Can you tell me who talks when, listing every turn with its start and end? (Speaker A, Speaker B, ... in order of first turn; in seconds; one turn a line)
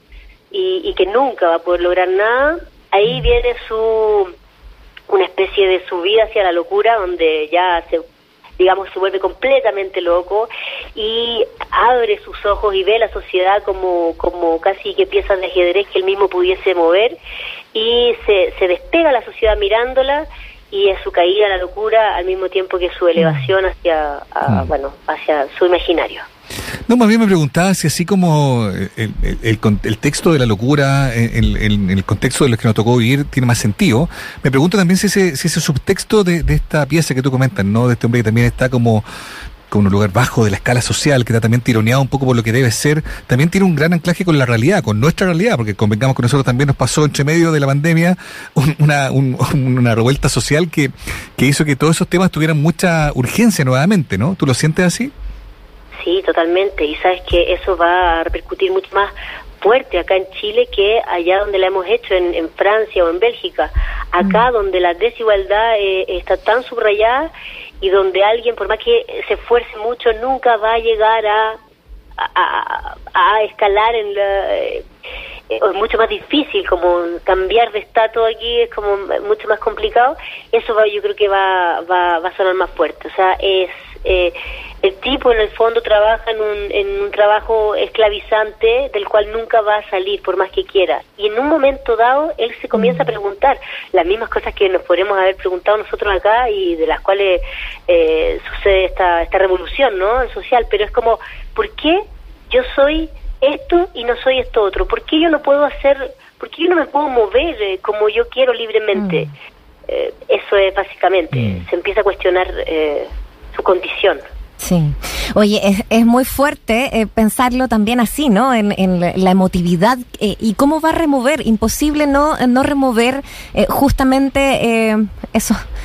Speaker A: 0.5-4.3
Speaker A: 5.1-8.0
Speaker A: 8.6-17.2
Speaker A: 17.7-26.2
Speaker B: 23.1-23.4
Speaker C: 26.9-39.0
Speaker C: 39.7-55.1
Speaker A: 56.0-67.3
Speaker A: 67.8-71.6
Speaker A: 72.2-74.8
Speaker A: 75.5-109.3
Speaker B: 92.7-93.0
Speaker B: 108.9-109.2
Speaker A: 109.9-114.2
Speaker C: 111.3-111.6
Speaker B: 114.6-125.6